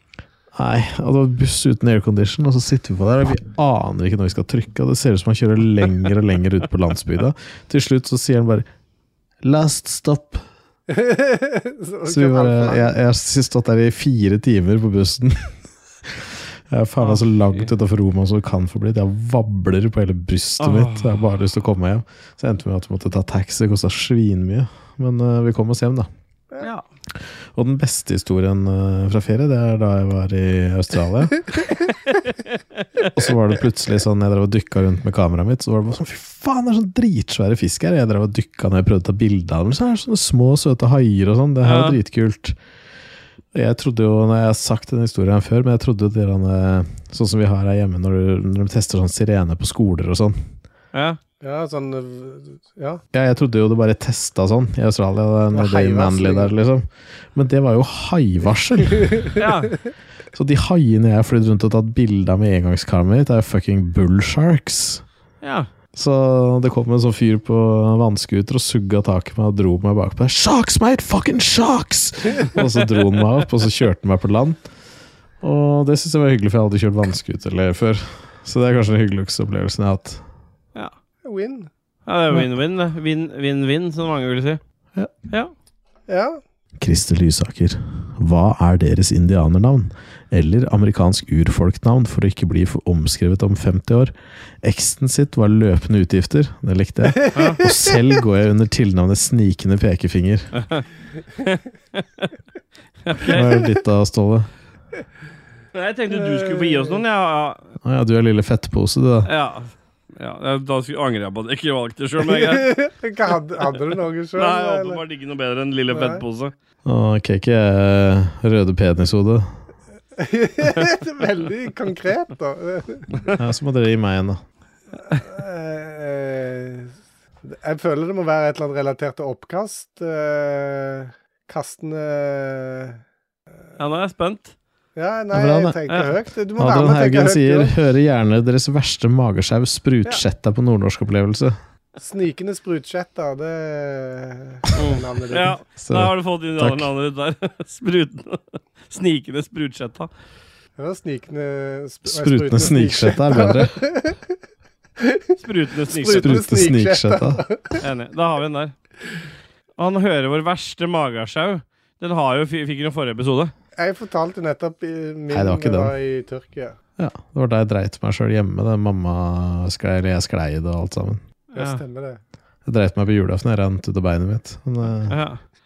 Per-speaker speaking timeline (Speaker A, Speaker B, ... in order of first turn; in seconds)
Speaker A: 0.5-8.7, 9.4-10.4, 12.1-26.1, 27.5-31.5, 33.1-42.6, 43.5-50.4, 53.1-59.3, 60.3-65.0, 65.9-74.7, 75.4-80.2, 86.8-100.5, 103.3-104.5, 107.8-109.3, 116.8-119.5, 123.3-124.4, 135.3-135.8, 136.6-141.6, 145.8-146.9, 152.1-153.8, 156.1-157.4, 165.3-165.9, 167.0-171.2, 172.6-175.2
Speaker B: 10.9-12.9, 51.4-53.0, 55.5-56.5, 81.2-81.7, 86.1-86.4, 97.2-97.7, 106.1-107.0, 112.2-115.0, 115.9-116.2, 120.2-123.2, 125.1-126.9, 127.4-133.0, 134.9-137.7, 142.0-145.6, 150.8-154.2, 155.0-155.4, 155.9-157.8, 163.8-166.8, 171.5-172.2
Speaker C: 17.0-17.7, 20.6-21.3, 32.5-33.0, 41.6-42.0, 50.9-51.2, 59.4-59.7, 65.4-65.7, 82.0-84.6, 97.3-97.6, 100.5-100.8, 101.4-102.3, 103.0-103.5, 105.7-107.7, 109.2-112.7, 114.3-116.5, 133.8-134.5, 144.8-150.1, 155.4-156.4, 157.8-158.7, 159.8-163.5, 171.5-171.8, 175.1-175.4